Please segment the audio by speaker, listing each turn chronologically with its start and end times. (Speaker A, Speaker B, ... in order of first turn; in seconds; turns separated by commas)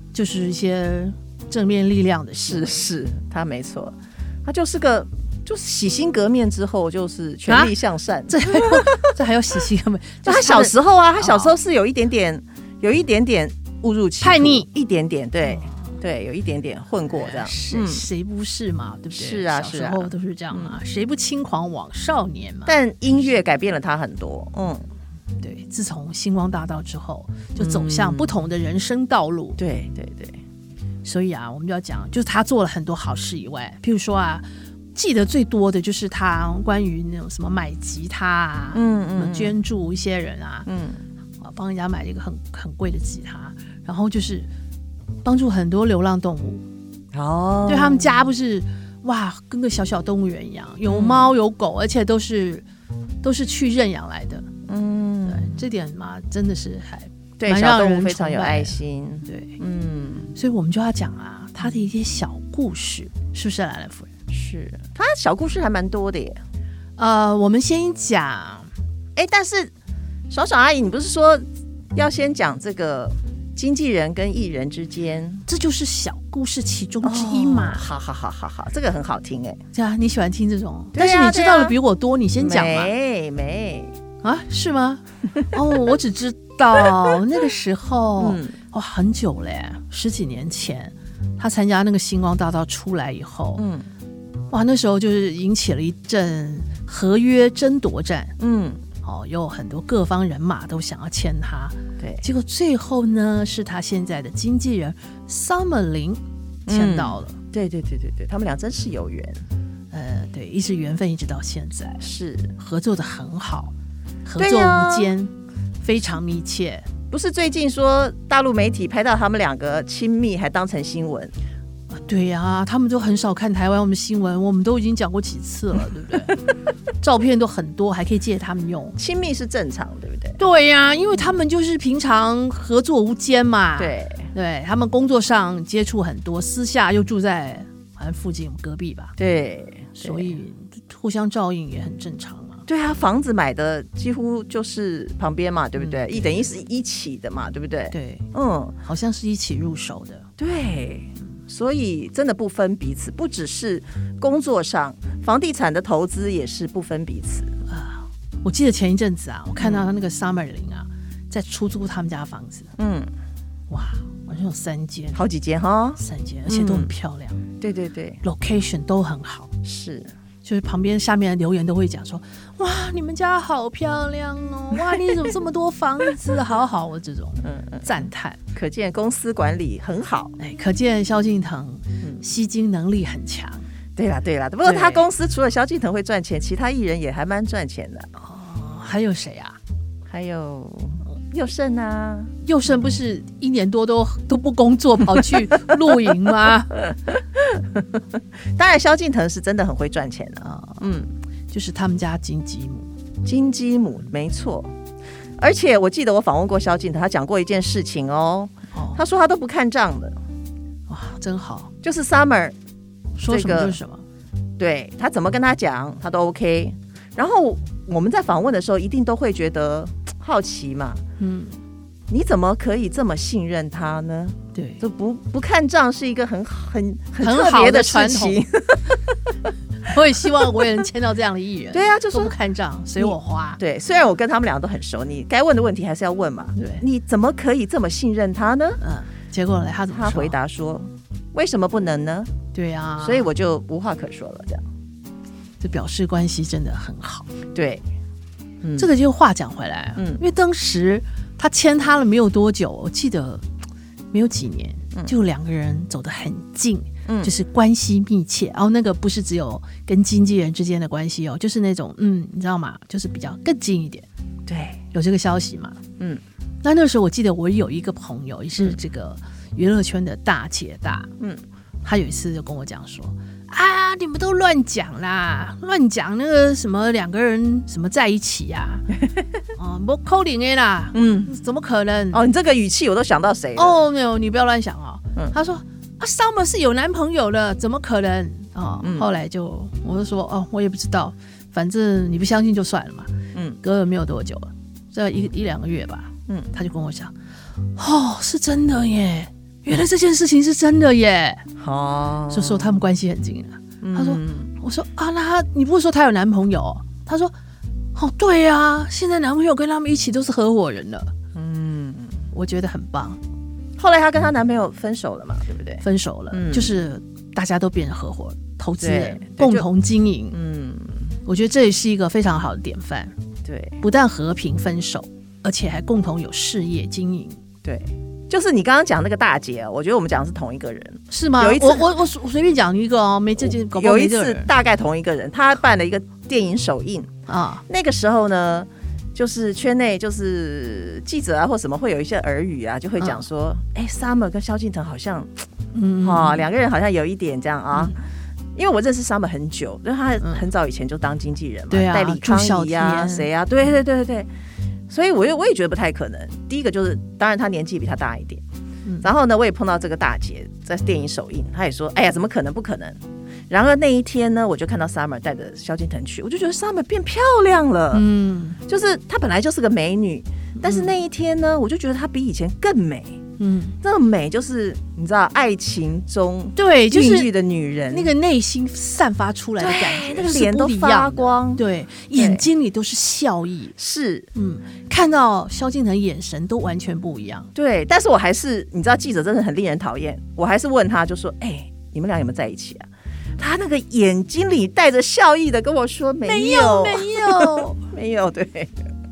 Speaker A: 0.1-2.8, Speaker B: 2.5-9.1, Speaker A: 7.5-7.7, Speaker A: 8.3-11.6, Speaker B: 10.2-18.1, Speaker A: 14.2-14.7, Speaker A: 17.1-22.8, Speaker B: 19.1-20.8, Speaker B: 22.6-24.9, Speaker A: 25.4-29.6, Speaker B: 27.6-28.4, Speaker B: 29.6-30.4, Speaker A: 31.0-40.7, Speaker B: 38.7-39.6, Speaker B: 40.6-41.0, Speaker A: 41.4-44.5, Speaker A: 45.2-46.6, Speaker B: 47.1-48.2, Speaker A: 47.6-52.6, Speaker B: 50.8-51.3, Speaker A: 53.2-54.5, Speaker B: 54.7-55.6, Speaker A: 55.2-59.6, Speaker B: 57.4-60.3, Speaker A: 60.3-64.1, Speaker B: 64.3-66.4, Speaker A: 67.0-68.7, Speaker B: 69.2-69.7, Speaker B: 70.3-75.5, Speaker A: 75.5-77.9, Speaker B: 77.0-79.6, Speaker A: 79.7-82.9, Speaker B: 80.9-81.8, Speaker B: 82.4-84.0, Speaker A: 84.2-93.7, Speaker B: 88.2-88.6, Speaker B: 93.6-93.9, Speaker A: 94.5-98.3, Speaker B: 98.4-98.8, Speaker A: 99.0-107.3, Speaker B: 102.0-102.2, Speaker B: 106.7-109.4, Speaker A: 109.9-113.7, Speaker B: 112.0-112.5, Speaker A: 114.2-116.9, Speaker B: 114.4-115.1, Speaker B: 117.1-121.3, Speaker A: 121.9-126.4, Speaker A: 127.0-129.0, Speaker B: 129.0-130.4, Speaker A: 130.4-139.1, Speaker B: 133.8-134.3, Speaker B: 139.2-140.3, Speaker A: 140.0-142.6, Speaker B: 142.7-148.8, Speaker A: 145.8-146.5, Speaker A: 147.9-148.3, Speaker A: 148.8-150.2, Speaker B: 150.4-157.5, Speaker A: 157.7-162.7, Speaker B: 159.6-159.9, Speaker B: 162.8-163.1, Speaker A: 163.7-165.2, Speaker B: 165.1-166.9, Speaker A: 166.0-167.4, Speaker B: 167.6-168.2, Speaker A: 168.2-169.5, Speaker B: 169.6-170.1, Speaker A: 170.4-178.4, Speaker B: 177.4-180.3, Speaker A: 180.4-183.7, Speaker B: 183.9-188.1, Speaker A: 184.6-185.1, Speaker A: 188.2-189.6, Speaker B: 190.1-192.3, Speaker A: 192.4-196.8, Speaker B: 197.4-197.8, Speaker B: 198.5-201.1, Speaker A: 200.4-200.8, Speaker A: 201.5-202.9, Speaker B: 203.2-204.7, Speaker B: 205.4-210.2, Speaker A: 208.7-209.0, Speaker A: 210.9-211.7, Speaker B: 211.8-212.5, Speaker A: 213.2-214.1, Speaker B: 213.2-213.8, Speaker B: 214.6-221.0, Speaker A: 221.2-221.5, Speaker B: 222.1-229.2, Speaker A: 224.5-224.8, Speaker A: 227.2-228.4, Speaker A: 229.8-233.6, Speaker B: 231.7-232.3, Speaker B: 232.9-238.8, Speaker A: 236.6-236.8, Speaker A: 238.8-240.4, Speaker B: 239.9-242.3, Speaker A: 242.5-243.3, Speaker B: 243.0-244.6, Speaker A: 245.6-247.3, Speaker B: 247.5-247.8, Speaker B: 248.6-248.9, Speaker A: 248.8-253.4, Speaker B: 249.9-250.2, Speaker A: 254.1-264.1, Speaker B: 257.1-257.3, Speaker B: 264.4-264.8, Speaker A: 264.9-265.8, Speaker A: 266.6-271.1, Speaker A: 271.8-278.8, Speaker A: 279.6-282.2, Speaker B: 280.9-281.3, Speaker B: 282.1-283.8, Speaker A: 283.5-297.1, Speaker B: 288.8-289.1, Speaker B: 293.3-293.6, Speaker A: 297.8-301.4, Speaker B: 301.6-302.8, Speaker A: 302.3-307.3, Speaker B: 303.8-304.5, Speaker A: 307.9-311.1, Speaker B: 311.3-312.2, Speaker A: 312.3-313.2, Speaker B: 313.8-316.8, Speaker A: 315.8-320.4, Speaker B: 318.8-319.7, Speaker B: 320.3-321.1, Speaker A: 321.2-323.1, Speaker B: 323.4-323.8, Speaker A: 323.8-327.4, Speaker B: 327.6-331.9, Speaker A: 331.1-334.5, Speaker B: 333.4-337.1, Speaker A: 337.3-337.6, Speaker B: 337.7-345.4, Speaker A: 343.0-343.2, Speaker A: 345.7-346.5, Speaker B: 346.0-347.9, Speaker B: 348.5-354.3, Speaker A: 350.2-350.4, Speaker A: 351.7-353.3, Speaker B: 354.9-358.4, Speaker B: 359.0-368.1, Speaker A: 367.9-368.6, Speaker B: 368.6-373.2, Speaker A: 370.6-370.9, Speaker A: 373.4-373.8, Speaker B: 373.8-378.1, Speaker A: 376.5-377.3, Speaker A: 377.9-383.8, Speaker B: 379.6-382.4, Speaker B: 383.8-384.3, Speaker A: 384.3-387.5, Speaker B: 387.5-392.9, Speaker B: 393.4-398.8, Speaker A: 396.2-397.8